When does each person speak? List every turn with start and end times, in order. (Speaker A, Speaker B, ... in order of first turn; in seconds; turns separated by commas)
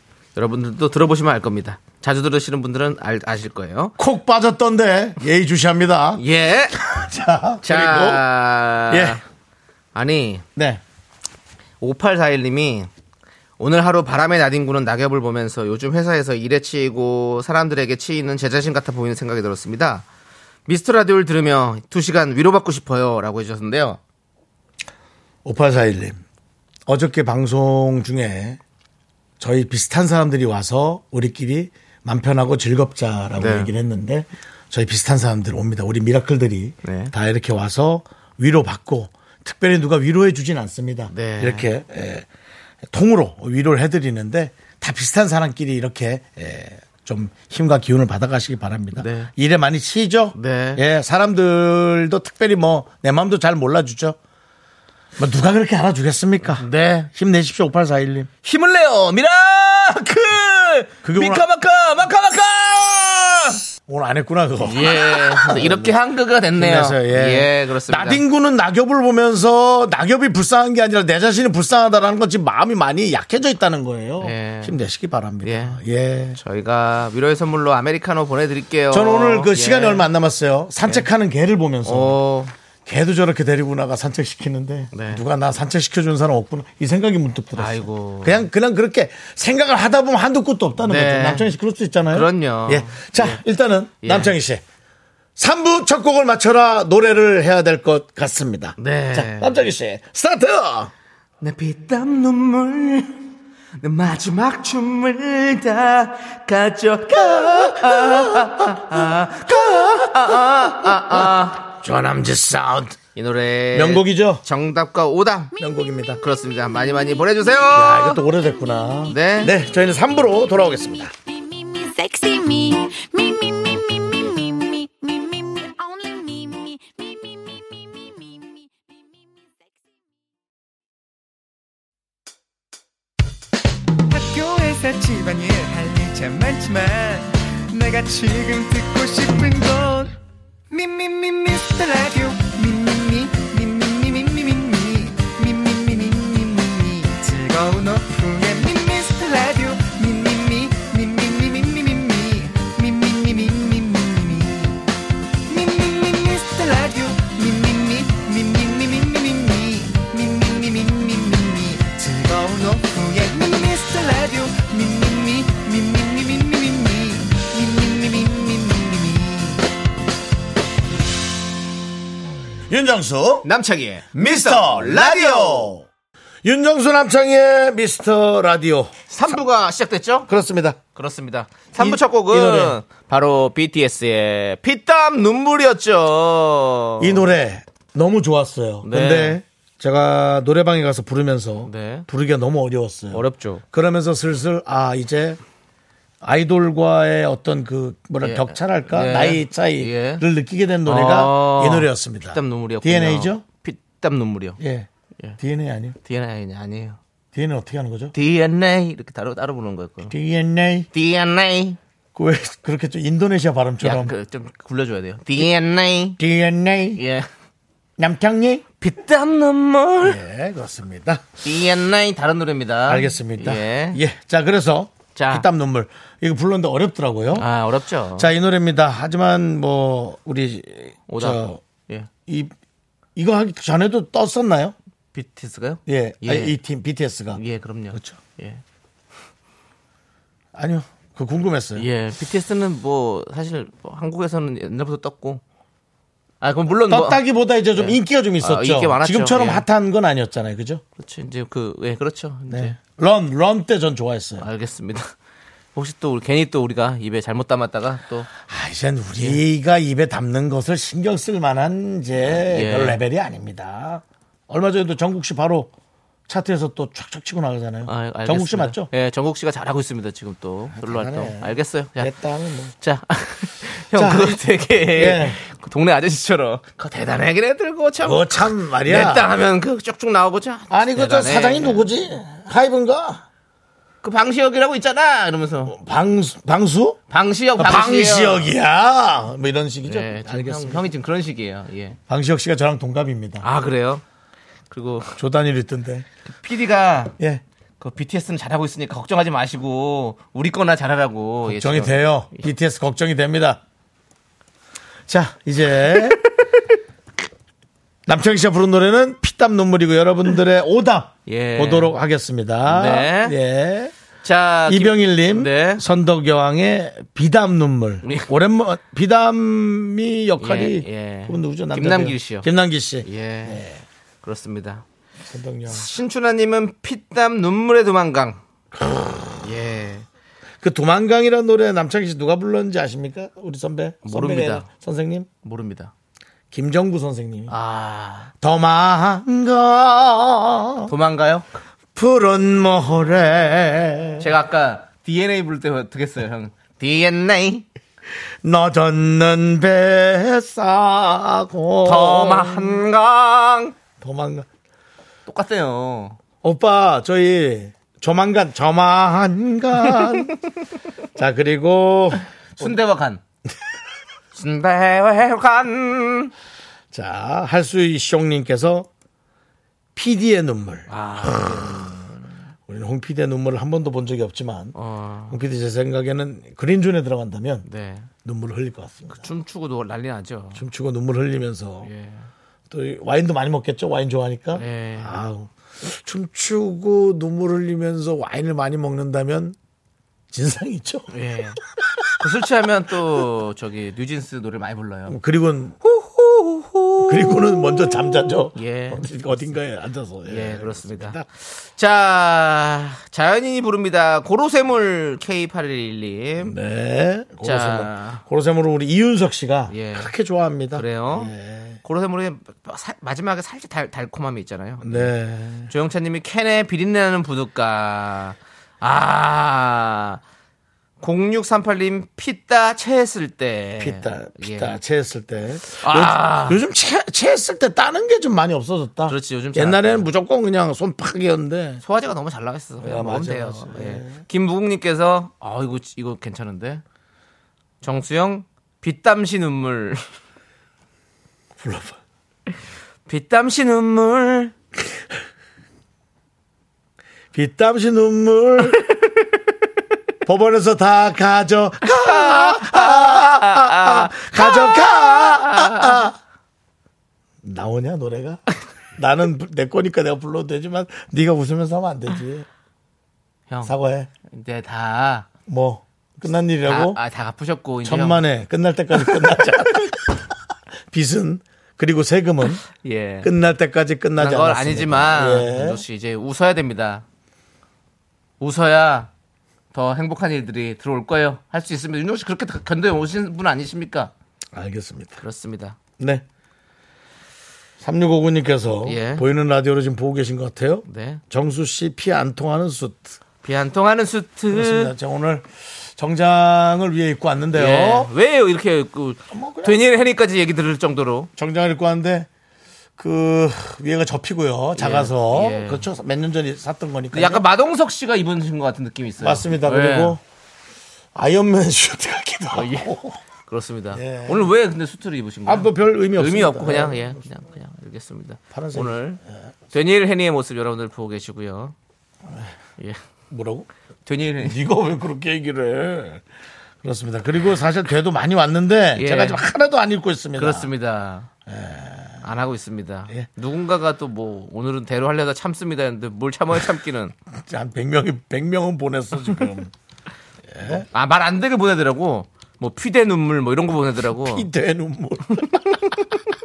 Speaker A: 0.3-3.9, Speaker B: 4.0-6.2, Speaker A: 6.2-6.8, Speaker B: 6.8-8.3, Speaker A: 7.6-9.2, Speaker B: 8.9-9.2, Speaker A: 9.9-10.4, Speaker B: 10.6-10.8, Speaker A: 11.8-12.9, Speaker A: 13.6-20.1, Speaker A: 20.7-24.0, Speaker B: 25.4-26.2, Speaker B: 26.9-28.6, Speaker B: 29.4-42.3, Speaker A: 33.4-33.7, Speaker A: 36.8-37.1, Speaker A: 41.1-41.7, Speaker B: 42.9-54.2, Speaker A: 49.0-49.3, Speaker A: 50.3-50.8, Speaker B: 55.2-58.3, Speaker A: 56.4-57.1, Speaker A: 58.4-63.6, Speaker B: 61.0-61.5, Speaker B: 63.9-65.9, Speaker A: 64.6-68.2, Speaker B: 66.5-76.4, Speaker A: 74.2-74.8, Speaker A: 75.4-75.8, Speaker A: 76.3-80.0, Speaker B: 78.9-82.2, Speaker A: 81.8-82.5, Speaker B: 82.8-94.6, Speaker A: 84.9-85.2, Speaker A: 87.5-88.5, Speaker A: 90.8-91.5, Speaker A: 92.1-93.4, Speaker A: 94.0-94.3, Speaker B: 95.4-100.9, Speaker A: 98.8-99.6, Speaker A: 101.4-103.2, Speaker A: 103.8-111.7, Speaker B: 107.1-113.0, Speaker A: 113.1-115.5, Speaker B: 113.7-114.4, Speaker B: 115.6-116.2, Speaker A: 116.2-118.2, Speaker B: 117.7-121.1, Speaker A: 119.1-119.5, Speaker C: 121.3-129.7, Speaker D: 134.1-140.1, Speaker D: 140.7-154.8, Speaker D: 155.5-169.6, Speaker B: 172.7-173.5, Speaker A: 173.4-175.7, Speaker B: 174.1-175.8, Speaker B: 176.4-178.9, Speaker A: 179.1-180.3, Speaker B: 180.3-180.8, Speaker A: 180.9-187.2, Speaker B: 181.8-182.8, Speaker B: 187.0-195.4, Speaker A: 188.8-189.4, Speaker A: 191.6-192.1, Speaker A: 193.1-193.6, Speaker B: 196.2-203.4, Speaker A: 198.2-200.2, Speaker A: 200.8-204.6, Speaker B: 204.6-204.9, Speaker B: 205.4-205.9, Speaker A: 206.0-207.0, Speaker B: 207.3-208.1, Speaker A: 208.1-210.1, Speaker B: 210.1-210.9, Speaker A: 210.9-211.8, Speaker B: 212.1-214.1, Speaker A: 213.8-216.2, Speaker B: 216.2-217.0, Speaker A: 216.9-217.3, Speaker B: 218.0-218.6, Speaker A: 218.8-220.2, Speaker B: 220.0-221.2, Speaker A: 221.4-224.0, Speaker B: 222.9-227.4, Speaker A: 225.1-225.5, Speaker A: 227.3-228.3, Speaker B: 228.2-231.6, Speaker A: 231.1-232.1, Speaker B: 232.3-232.5, Speaker B: 233.2-234.7, Speaker A: 235.1-236.6, Speaker B: 235.9-237.4, Speaker A: 237.3-238.6, Speaker B: 237.9-238.2, Speaker B: 240.5-241.8, Speaker A: 241.8-245.4, Speaker A: 246.4-247.2, Speaker B: 246.9-250.8, Speaker A: 247.8-249.6, Speaker A: 251.0-252.8, Speaker B: 252.5-254.5, Speaker A: 254.4-255.1, Speaker A: 255.7-258.3, Speaker B: 258.4-265.7, Speaker A: 259.2-259.4, Speaker A: 262.3-263.0, Speaker B: 266.3-268.9, Speaker A: 267.9-272.1, Speaker B: 270.7-272.7, Speaker A: 272.8-281.9, Speaker B: 273.9-275.4, Speaker B: 278.0-279.3, Speaker B: 280.7-283.2, Speaker A: 284.0-285.7, Speaker B: 285.7-287.0, Speaker A: 287.1-288.5, Speaker B: 287.6-290.8, Speaker A: 289.9-292.0, Speaker B: 292.1-293.4, Speaker A: 293.4-294.0, Speaker A: 294.7-295.1, Speaker B: 295.2-296.1, Speaker A: 296.4-297.1, Speaker A: 297.8-302.4, Speaker B: 301.4-303.6, Speaker B: 305.1-306.2, Speaker B: 308.1-313.9, Speaker A: 311.3-312.0, Speaker A: 312.6-313.4, Speaker A: 314.2-315.8, Speaker B: 314.7-323.8, Speaker A: 318.0-318.3, Speaker A: 320.4-322.5, Speaker A: 323.0-323.6, Speaker A: 324.2-324.8, Speaker B: 325.3-325.9, Speaker A: 325.7-328.4, Speaker B: 328.8-329.4, Speaker A: 329.4-330.1, Speaker B: 330.6-335.3, Speaker A: 334.0-334.7, Speaker A: 335.4-335.9, Speaker B: 336.5-337.5, Speaker A: 337.5-338.3, Speaker B: 338.4-340.9, Speaker A: 340.9-341.5, Speaker B: 341.9-344.3, Speaker A: 344.2-347.6, Speaker B: 348.4-352.8, Speaker A: 351.8-353.7, Speaker B: 354.0-354.5, Speaker A: 355.2-356.2, Speaker B: 356.4-360.3, Speaker B: 361.1-362.7, Speaker A: 362.6-363.2, Speaker A: 364.3-366.3, Speaker B: 366.9-368.9, Speaker B: 369.9-371.9, Speaker A: 370.9-372.3, Speaker B: 372.7-374.7, Speaker A: 374.7-375.4, Speaker B: 375.3-377.6, Speaker A: 377.6-378.1, Speaker B: 378.2-379.2, Speaker A: 379.1-380.6, Speaker B: 380.6-381.9, Speaker A: 381.8-382.3, Speaker B: 382.7-389.6, Speaker A: 384.5-385.2, Speaker B: 390.3-391.1, Speaker A: 391.1-391.6, Speaker A: 392.2-395.2, Speaker B: 395.1-396.0, Speaker A: 396.2-397.4, Speaker B: 397.0-401.2, Speaker A: 398.5-399.1, Speaker A: 400.3-406.5, Speaker B: 406.4-411.8, Speaker A: 407.4-408.2, Speaker A: 409.7-410.1, Speaker A: 410.7-415.1, Speaker B: 414.8-415.7, Speaker A: 415.7-420.2, Speaker A: 421.0-424.7, Speaker B: 423.8-431.8, Speaker A: 425.8-426.6, Speaker A: 429.1-430.1, Speaker A: 431.8-436.8, Speaker B: 432.8-434.2, Speaker A: 437.8-440.0, Speaker B: 441.6-442.0, Speaker A: 443.1-444.5, Speaker B: 447.3-448.8, Speaker B: 450.2-456.1, Speaker A: 451.9-456.0, Speaker B: 457.4-458.4, Speaker B: 459.0-462.4, Speaker A: 463.5-463.7, Speaker B: 463.6-464.1, Speaker A: 464.3-465.3, Speaker B: 465.5-467.0, Speaker A: 466.6-468.2, Speaker B: 467.8-470.2, Speaker B: 470.9-472.6, Speaker A: 472.8-473.3, Speaker B: 473.2-475.8, Speaker A: 474.2-477.0, Speaker A: 478.4-479.1, Speaker A: 479.7-484.1, Speaker B: 484.5-485.2, Speaker A: 485.2-485.8, Speaker B: 486.0-486.2, Speaker B: 487.8-493.2, Speaker A: 488.8-489.2, Speaker A: 490.9-491.2, Speaker A: 493.4-494.9, Speaker B: 494.5-498.1, Speaker A: 497.5-501.3, Speaker B: 499.3-499.8, Speaker B: 501.4-502.3, Speaker B: 503.0-507.4, Speaker A: 504.8-505.9, Speaker A: 507.1-510.2, Speaker B: 509.2-510.2, Speaker B: 511.1-513.2, Speaker A: 512.5-512.9, Speaker A: 513.5-519.2, Speaker B: 513.9-514.5, Speaker B: 515.5-517.1, Speaker B: 518.5-519.0, Speaker A: 519.7-521.7, Speaker B: 523.3-523.7, Speaker A: 524.0-524.6, Speaker B: 524.4-526.2, Speaker B: 526.8-530.7, Speaker A: 529.0-529.4, Speaker A: 530.4-531.3, Speaker B: 531.5-532.2, Speaker A: 532.2-537.1, Speaker B: 537.4-539.7, Speaker B: 540.5-540.9, Speaker A: 540.6-544.5, Speaker B: 544.2-545.7, Speaker A: 545.5-545.9